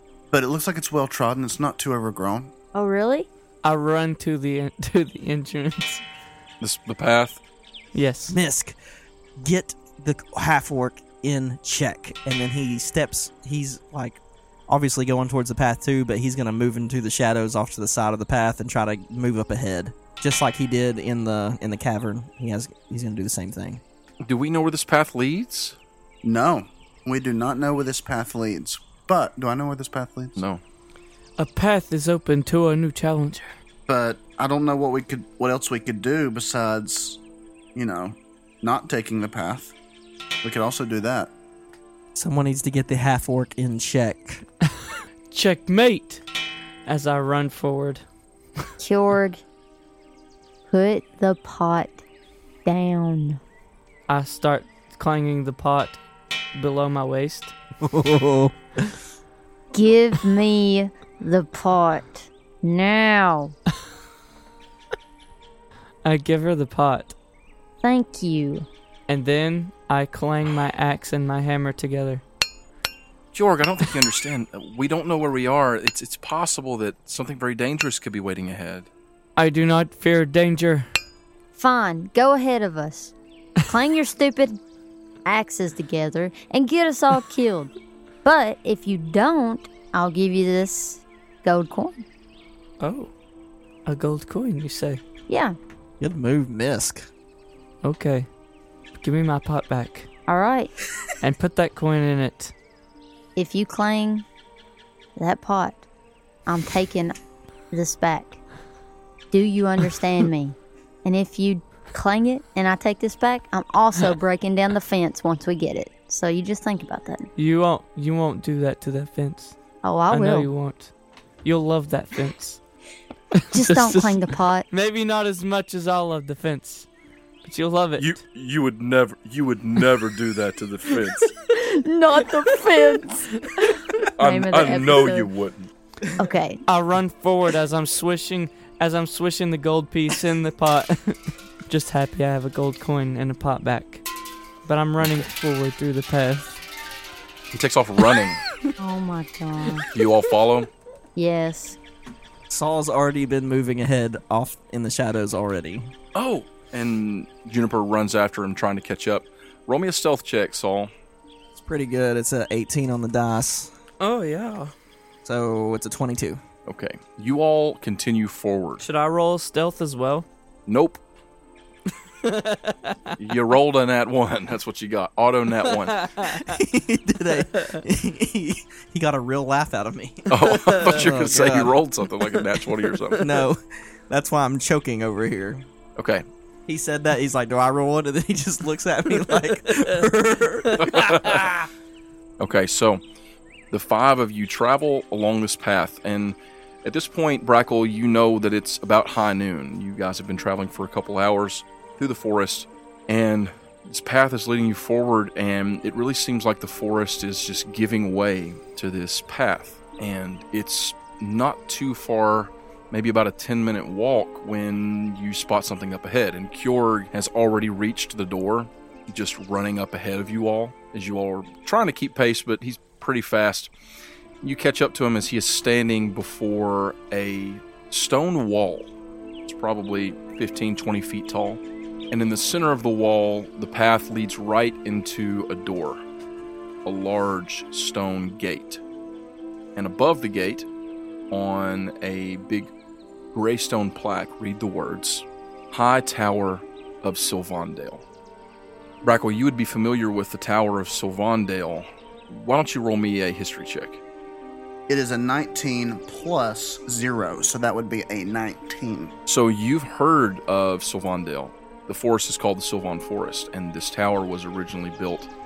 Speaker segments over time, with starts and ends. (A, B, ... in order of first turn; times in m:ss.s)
0:00.3-0:02.5 A
0:02.7-0:03.3 B
0:03.6-0:06.0 C
0:06.6-0:07.4 D
0:07.9-0:08.4 C
0:08.3-0:08.8 E
0:09.4-0:23.8 E
0:24.2-0:25.8 D
0:26.2-0:30.4 A
0:30.4-0:30.6 D
0:31.4-0:33.5 C
0:33.9-0:37.2 A
0:37.7-0:39.7 A
0:40.4-0:41.3 A
0:42.1-0:44.5 E
0:45.3-0:46.2 C
0:46.9-0:48.0 C
0:48.8-0:49.4 B
0:50.7-0:52.0 B
0:52.6-0:53.4 B
0:54.1-0:56.0 C
0:56.5-0:57.6 C
0:57.8-0:58.9 E
0:59.7-1:03.6 B
1:06.0-1:07.2 C
1:07.8-1:08.7 B
1:09.1-1:12.2 C
1:13.3-1:18.9 D
1:19.4-1:20.9 C
1:21.6-1:24.6 B
1:25.2-1:27.7 B
1:28.2-1:32.0 B
1:32.8-1:33.1 C
1:33.9-1:35.0 C
1:35.3-1:35.6 B
1:36.0-1:37.1 E
1:37.8-1:38.3 C
1:39.0-1:40.1 C
1:40.3-1:40.8 B
1:41.2-1:42.5 C
1:43.4-1:44.2 B
1:45.2-1:45.9 B
1:46.4-1:47.2 B
1:47.7-1:48.4 B
1:49.3-1:57.3 B
1:57.4-1:59.6 C
1:59.8-2:00.5 B
2:00.1-2:02.6 C
2:03.4-2:06.9 C
2:03.5-2:04.7 B
2:07.4-2:08.2 C
2:08.0-2:11.3 D
2:11.5-2:15.3 B
2:14.2-2:15.7 D
2:16.2-2:16.6 B
2:16.7-2:24.0 C
2:24.6-2:26.6 C
2:27.5-2:28.4 D
2:28.8-2:29.9 B
2:29.9-2:30.7 D
2:31.2-2:31.8 B
2:32.5-2:35.9 E
2:36.1-2:40.9 D
2:41.6-2:43.7 E
2:44.0-2:44.7 C
2:45.2-2:46.4 E
2:46.6-2:48.8 D
2:48.8-2:50.3 C
2:50.7-2:51.0 D
2:52.2-2:53.2 C
2:53.2-2:56.1 D
2:55.7-2:56.4 C
2:56.2-3:01.8 E
2:57.6-2:57.8 C
3:00.3-3:03.2 D
3:00.5-3:00.9 C
3:03.2-3:05.7 E
3:06.0-3:06.2 D
3:06.7-3:11.1 E
3:10.7-3:11.6 C
3:10.8-3:11.5 D
3:12.4-3:13.0 D
3:13.7-3:43.7 D
3:44.4-3:48.9 D
3:49.4-3:56.0 D
3:56.8-3:58.8 D
3:59.8-4:00.7 D
4:01.3-4:02.7 D
4:03.3-4:08.0 D
4:09.0-4:14.0 D
4:14.9-4:19.1 A
4:19.2-4:25.3 D